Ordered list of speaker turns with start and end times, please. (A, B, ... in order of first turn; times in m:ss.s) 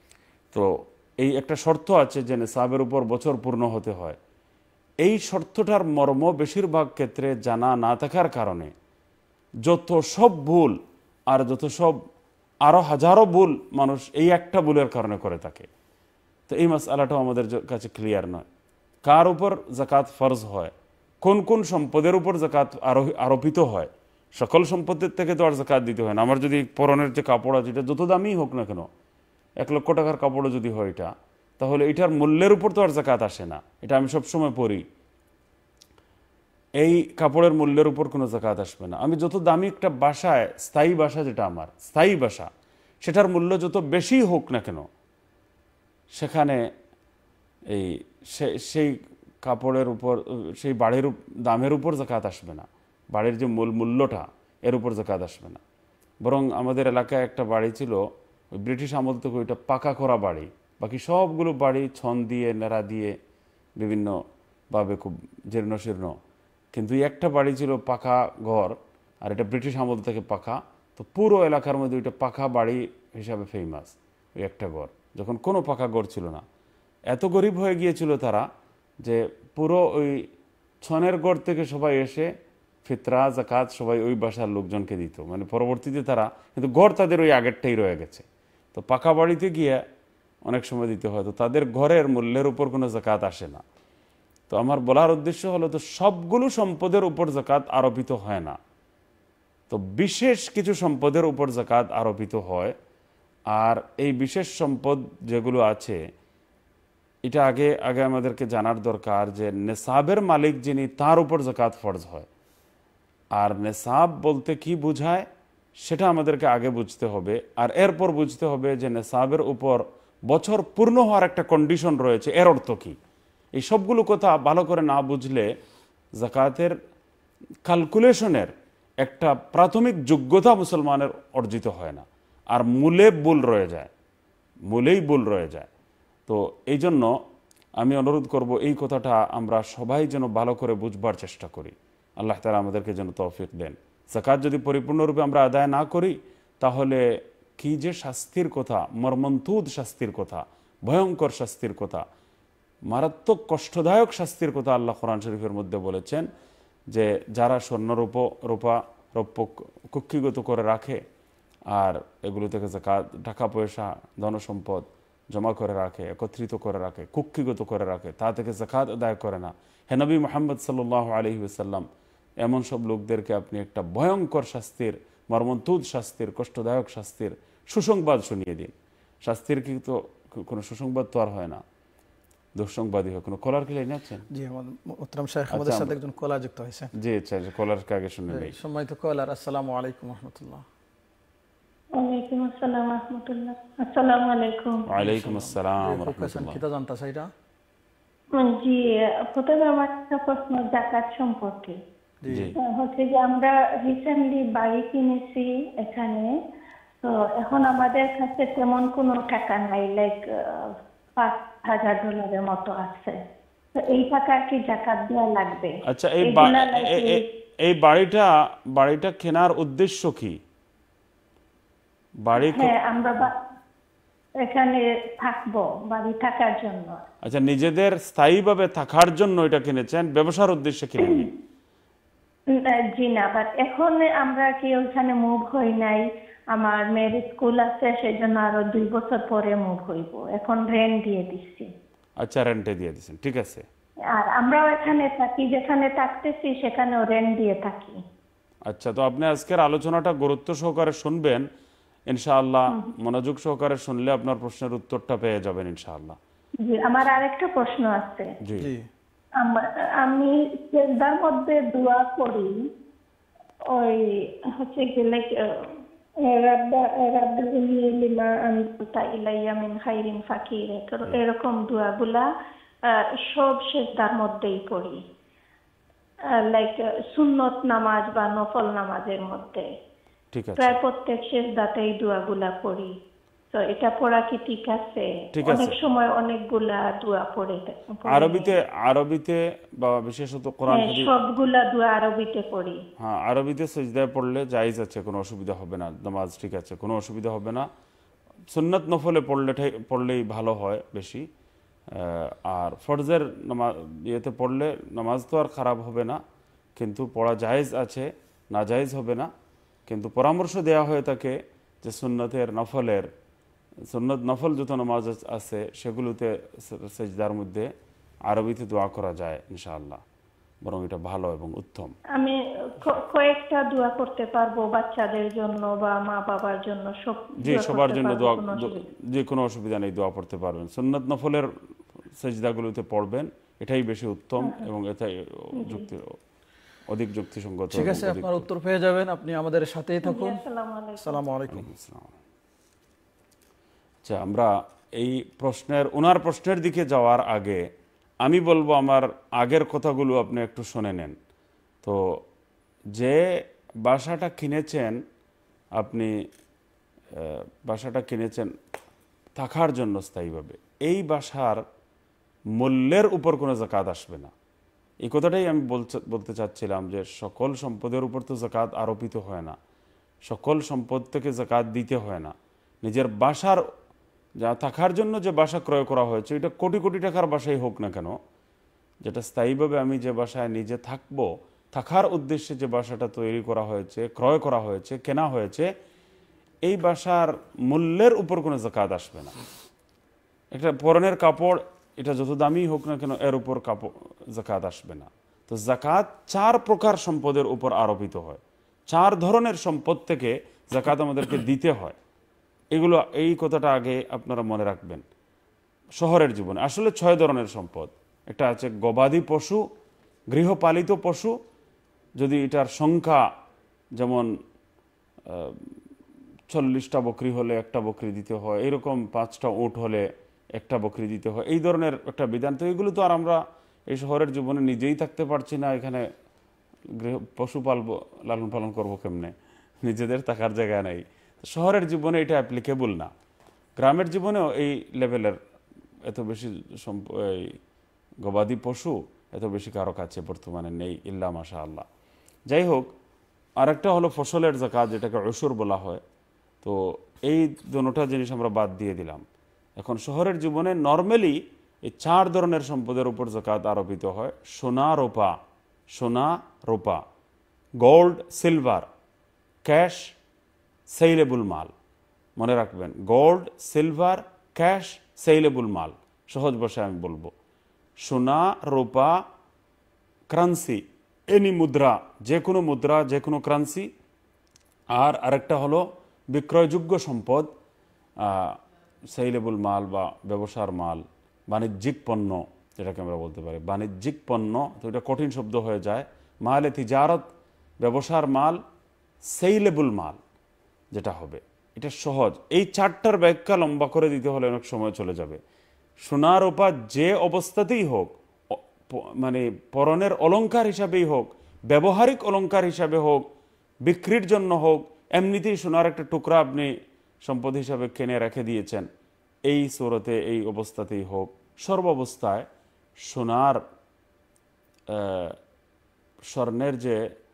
0:00.5-0:04.2 A
0:05.0-0:08.7 A
0:09.6-0:12.0 A
0:12.6-0:15.7 A
0:16.5-0:18.4 A
0:19.0-0:28.9 A
0:29.6-0:34.8 A
0:36.8-0:42.5 A
0:43.0-0:44.9 A
0:46.2-0:46.7 A
0:47.7-0:55.6 A
0:56.2-1:03.2 A
1:03.8-1:06.2 A
1:06.7-1:16.4 A
1:17.1-1:18.5 A
1:19.0-1:20.3 A
1:20.8-1:22.3 A
1:22.8-1:29.8 A
1:30.5-1:33.6 A
1:34.5-1:38.6 A
1:39.7-1:42.8 A
1:43.5-1:46.0 A
1:47.2-1:52.3 A
1:53.4-2:03.0 A
2:03.6-2:05.5 A
2:06.2-2:06.8 A
2:07.7-2:13.9 A
2:14.7-2:15.7 A
2:16.3-2:17.2 A
2:17.8-2:27.0 A
2:27.6-2:32.0 A
2:32.9-2:36.3 A
2:36.9-2:41.0 A
2:41.7-2:51.9 A
2:52.4-2:58.7 A
2:59.2-3:01.6 A
3:02.6-3:04.3 A
3:04.3-3:06.9 B
3:05.5-3:06.0 A
3:07.0-3:08.6 A
3:08.3-3:10.6 B
3:12.0-3:14.9 C
3:14.9-3:16.6 A
3:15.0-3:17.3 B
3:18.4-3:21.8 C
3:22.2-3:22.5 B
3:22.3-3:22.6 A
3:22.6-3:26.4 C
3:27.0-3:33.2 C
3:33.8-3:37.2 C
3:35.8-3:40.4 A
3:42.2-3:42.7 A
3:42.4-3:43.4 C
3:44.4-3:47.0 C
3:47.2-3:51.3 A
3:52.5-4:01.7 C
4:02.2-4:03.7 A
4:04.1-4:08.0 C
4:08.7-4:11.5 A
4:12.1-4:16.2 A
4:16.6-4:18.3 C
4:18.4-4:18.7 A
4:18.6-4:18.9 B
4:19.4-4:22.7 C
4:23.7-4:32.3 C
4:32.8-4:35.0 C
4:36.3-4:39.7 C
4:40.3-4:40.8 A
4:40.6-4:42.9 C
4:43.5-4:48.5 C
4:45.3-4:45.8 A
4:48.1-4:51.1 A
4:50.7-4:52.8 C
4:53.0-4:57.7 A
4:58.5-5:01.3 A
5:01.9-5:06.2 A
5:06.8-5:09.3 A
5:09.9-5:13.1 A
5:13.9-5:17.7 A
5:18.3-5:20.0 A
5:20.6-5:21.9 A
5:22.2-5:28.9 C
5:27.4-5:31.5 A
5:32.2-5:36.2 A
5:34.4-5:34.7 C
5:35.6-5:35.9 C
5:36.9-5:38.5 A
5:37.7-5:40.4 B
5:40.0-5:41.2 C
5:41.0-5:41.7 B
5:41.5-5:42.2 A
5:44.0-5:47.7 A
5:48.2-5:51.2 A
5:51.8-5:52.2 A
5:52.9-5:53.3 A
5:53.8-5:55.0 A
5:55.8-5:56.1 A
5:57.1-5:58.5 A
5:59.4-6:01.6 A
6:02.6-6:04.3 A
6:05.0-6:09.6 A
6:10.3-6:13.6 A
6:14.4-6:18.2 A
6:19.0-6:25.7 A
6:26.6-6:29.4 A
6:30.5-6:42.0 A
6:42.7-6:45.0 A
6:46.0-6:49.7 A
6:50.3-6:51.4 A
6:52.2-6:53.2 A
6:54.0-6:54.3 A
6:55.3-6:55.8 A
6:56.5-7:06.1 A
7:06.9-7:13.1 A
7:13.8-7:15.4 A
7:16.1-7:17.6 A
7:18.2-7:21.9 A
7:22.5-7:22.9 A
7:23.6-7:26.0 A
7:26.6-7:29.2 A
7:29.8-7:35.4 A
7:35.9-7:37.0 A
7:37.8-7:38.9 A
7:39.6-7:40.1 A
7:40.9-7:41.7 A
7:42.4-7:47.3 A
7:48.0-7:49.2 A
7:50.3-7:53.9 A
7:54.9-7:57.5 A
7:58.2-7:58.6 A
7:59.1-8:07.3 A
8:07.8-8:08.6 A
8:09.2-8:10.2 A
8:10.9-8:15.4 A
8:16.0-8:23.3 A
8:23.8-8:28.9 A
8:29.5-8:32.5 A
8:33.0-8:33.6 A
8:34.9-8:35.4 A
8:36.2-8:37.0 A